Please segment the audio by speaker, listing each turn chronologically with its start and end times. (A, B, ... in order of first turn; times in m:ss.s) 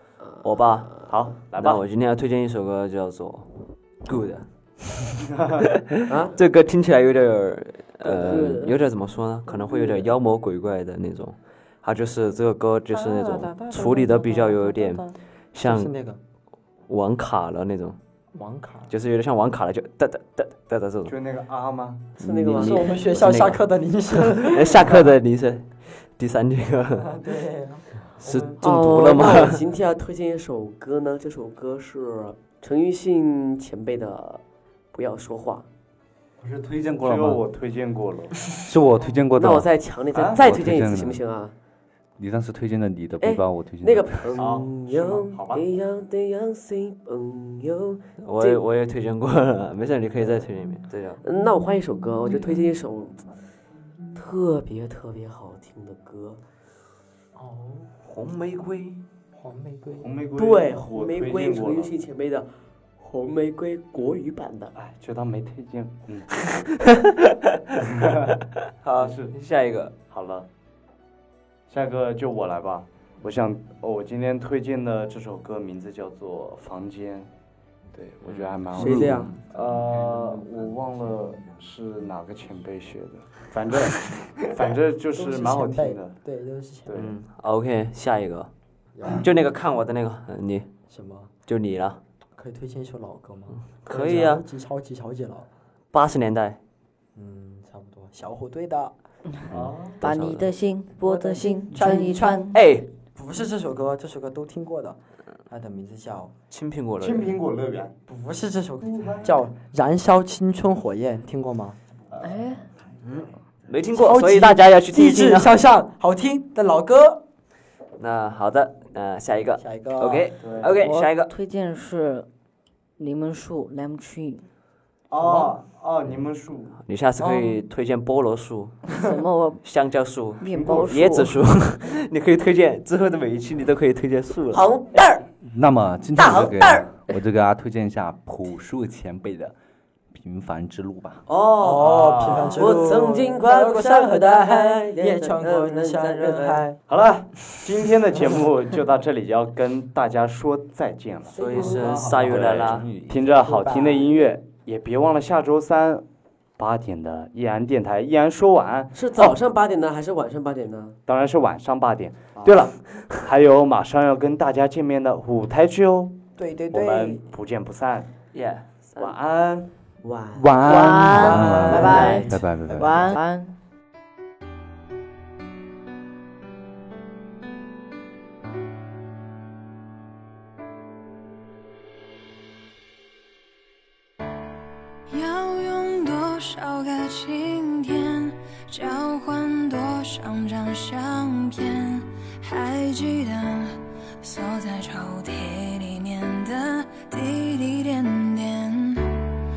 0:00.4-0:15.9 A
0:01.1-0:01.8 B
0:05.2-0:05.6 B
0:06.1-0:06.4 C
0:08.0-0:08.7 C
0:08.3-0:08.7 D
0:09.7-0:10.1 C
0:12.9-0:16.2 E
0:16.9-0:18.0 A
0:18.3-0:18.9 E
0:18.9-0:21.2 A
0:21.0-0:22.1 B
0:22.2-0:23.2 C
0:22.2-0:27.1 A
0:22.5-0:25.1 E
0:27.0-0:28.6 E
0:28.2-0:29.6 A
0:28.6-0:34.4 C
0:28.6-0:29.2 D
0:34.9-0:35.7 C
0:36.4-0:38.4 B
0:36.6-0:37.4 F
0:38.7-0:39.7 F
0:39.4-0:41.5 C
0:40.2-0:40.4 B
0:40.3-0:41.2 F
0:42.2-0:44.3 F
0:43.2-0:48.6 C
0:44.4-0:45.6 B
0:48.2-0:51.2 A
0:51.2-0:53.2 C
0:54.2-0:56.4 C
0:57.4-0:57.9 E
0:58.0-0:59.0 A
0:59.4-1:00.1 E
1:00.0-1:01.9 B
1:00.4-1:04.8 C
1:04.8-1:06.3 B
1:08.8-1:09.9 A
1:09.0-1:09.3 B
1:10.1-1:10.5 B
1:11.7-1:17.3 B
1:17.9-1:26.2 B
1:18.2-1:18.9 A
1:18.8-1:19.4 C
1:25.2-1:26.9 E
1:26.9-1:27.2 B
1:27.0-1:28.5 A
1:29.0-1:29.3 E
1:29.1-1:30.7 A
1:30.9-1:31.3 E
1:31.5-1:32.0 A
1:32.4-1:35.5 E
1:33.9-1:34.4 A
1:35.9-1:36.6 A
1:37.2-1:38.9 E
1:39.5-1:40.5 A
1:39.5-1:40.0 B
1:40.0-1:42.5 D
1:41.0-1:45.0 E
1:42.5-1:42.9 A
1:45.5-1:46.3 E
1:46.5-1:47.4 A
1:47.0-1:47.9 B
1:48.1-1:51.8 E
1:48.8-1:49.4 B
1:52.2-1:52.6 D
1:53.0-1:55.6 A
1:53.9-1:57.2 E
1:58.0-2:01.3 A
1:59.6-2:00.3 E
2:00.4-2:00.8 B
2:00.8-2:02.3 D
2:03.0-2:04.4 D
2:05.1-2:06.8 B
2:05.2-2:05.5 E
2:06.9-2:09.0 A
2:07.2-2:07.6 E
2:09.0-2:09.6 D
2:09.6-2:14.6 A
2:10.4-2:11.3 D
2:10.5-2:11.2 B
2:14.5-2:15.3 C
2:15.4-2:19.5 F
2:16.2-2:16.9 C
2:20.1-2:21.2 F
2:21.3-2:21.9 C
2:21.6-2:22.9 B
2:21.6-2:26.8 E
2:22.5-2:26.7 C
2:26.9-2:36.0 B
2:27.6-2:28.5 E
2:31.3-2:32.9 A
2:31.4-2:32.1 E
2:31.6-2:33.3 F
2:33.3-2:34.1 E
2:36.6-2:39.3 B
2:38.9-2:41.0 C
2:41.1-2:46.2 B
2:46.4-2:47.2 E
2:46.7-2:48.1 B
2:48.3-2:49.2 A
2:49.0-2:49.7 B
2:50.0-2:50.7 C
2:50.3-2:53.2 F
2:50.6-2:53.5 D
2:51.1-2:52.1 E
2:51.5-2:52.4 A
2:52.0-2:52.3 C
3:05.1-3:19.1 G